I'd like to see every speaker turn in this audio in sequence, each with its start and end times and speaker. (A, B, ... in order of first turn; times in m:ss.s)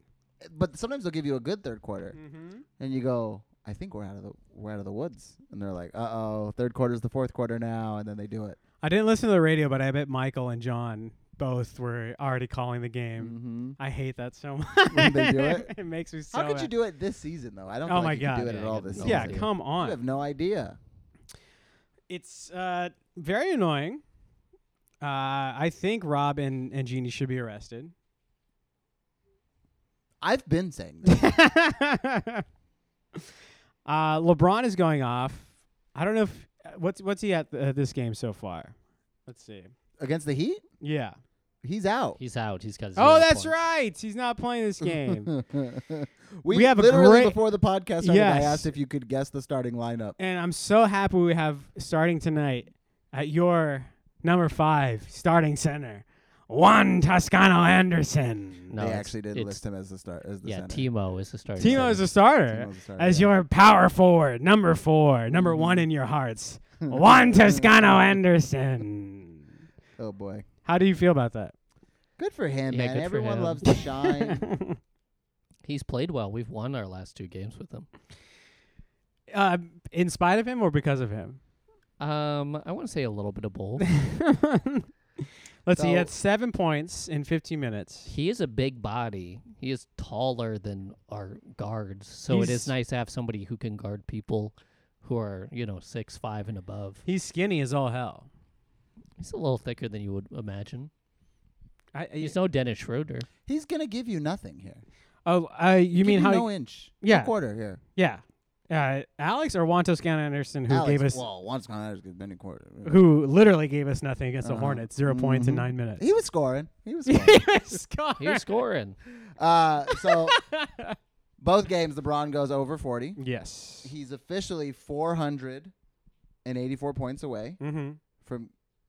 0:00.4-0:02.2 A
0:02.2-0:02.6 B
0:02.8-0:08.6 A
0:08.8-0:16.7 B
0:13.2-0:13.8 A
0:14.9-0:15.7 A
0:16.3-0:20.8 A
0:17.9-0:20.0 B
0:18.4-0:19.5 C
0:22.1-0:24.0 B
0:25.0-0:27.9 B
0:30.2-0:31.2 A
0:31.1-0:32.4 B
0:33.9-0:38.8 B
0:39.3-0:39.7 B
0:40.0-0:40.6 A
0:40.8-0:41.2 B
0:41.6-0:42.2 A
0:42.2-0:43.6 C
0:43.0-0:45.3 B
0:44.8-0:50.2 A
0:46.5-0:47.4 B
0:48.0-0:48.7 B
0:50.2-0:58.7 B
0:58.7-0:59.6 C
0:58.8-1:00.9 A
1:00.4-1:02.1 C
1:01.6-1:09.5 B
1:01.6-1:03.3 A
1:05.3-1:05.9 A
1:06.8-1:07.7 A
1:10.0-1:10.5 A
1:10.6-1:11.5 B
1:12.2-1:14.4 A
1:12.7-1:13.6 C
1:14.2-1:14.8 B
1:15.6-1:17.9 C
1:19.3-1:21.4 B
1:22.0-1:23.9 C
1:24.0-1:24.9 B
1:25.7-1:28.1 B
1:28.1-1:37.0 C
1:32.3-1:32.7 B
1:37.1-1:38.3 B
1:39.2-1:40.9 C
1:41.9-1:42.4 B
1:42.2-1:43.3 C
1:43.5-1:44.8 A
1:45.3-1:46.5 B
1:46.0-1:47.8 A
1:47.0-1:47.3 B
1:48.0-1:51.2 B
1:50.7-1:53.0 A
1:52.8-1:56.1 B
1:54.4-1:57.5 A
1:57.1-1:58.6 B
1:58.2-1:59.0 C
1:59.2-2:00.4 A
1:59.9-2:01.0 B
2:01.4-2:03.2 A
2:03.2-2:03.9 B
2:03.8-2:05.7 A
2:06.4-2:07.6 A
2:07.6-2:08.0 B
2:08.2-2:08.5 A